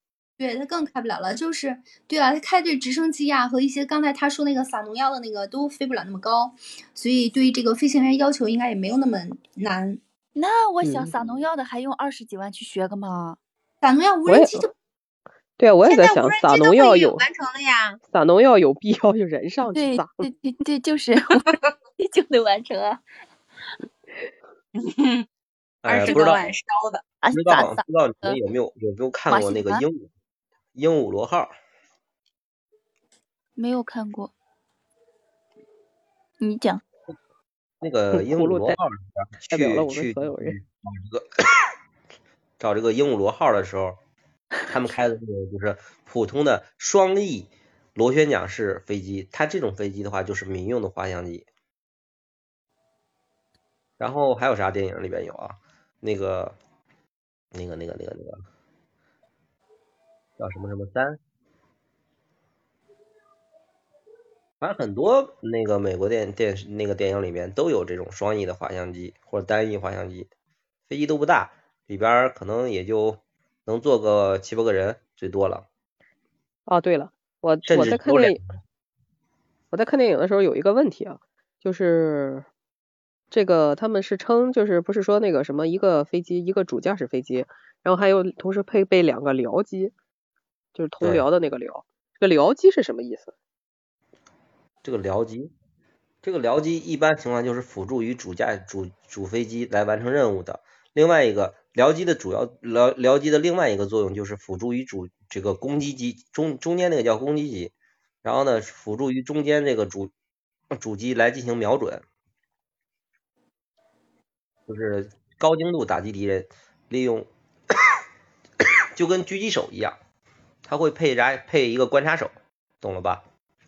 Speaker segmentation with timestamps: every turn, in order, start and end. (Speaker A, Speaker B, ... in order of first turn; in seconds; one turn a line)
Speaker A: 0.4-10.0
Speaker B: 10.3-13.4
Speaker C: 10.8-11.1
Speaker A: 13.8-14.7
Speaker C: 14.3-14.7
Speaker C: 15.6-17.2
Speaker D: 15.8-18.0
Speaker C: 18.1-20.2
Speaker B: 19.7-21.4
Speaker D: 21.3-21.7
Speaker B: 22.0-23.0
Speaker D: 24.7-25.2
Speaker E: 25.8-26.4
Speaker D: 25.9-27.0
Speaker B: 27.2-28.4
Speaker E: 27.3-30.1
Speaker B: 29.3-29.8
Speaker E: 30.7-31.5
Speaker B: 33.5-34.3
Speaker B: 36.4-36.8
Speaker E: 37.8-41.7
Speaker C: 38.1-38.8
Speaker C: 39.5-40.6
Speaker E: 42.6-44.0
Speaker E: 44.7-51.5
Speaker E: 54.0-56.5
Speaker E: 57.5-58.4
Speaker E: 60.4-61.2
Speaker E: 64.6-70.3
Speaker E: 70.9-75.7
Speaker C: 76.7-78.4
Speaker E: 77.7-78.5
Speaker C: 79.7-82.5
Speaker C: 83.3-89.9
Speaker C: 90.7-93.3
Speaker E: 94.8-95.5
Speaker E: 96.2-107.7
Speaker E: 108.2-110.1
Speaker E: 110.7-112.0
Speaker E: 114.7-117.3
Speaker E: 119.0-120.0
Speaker E: 120.6-123.2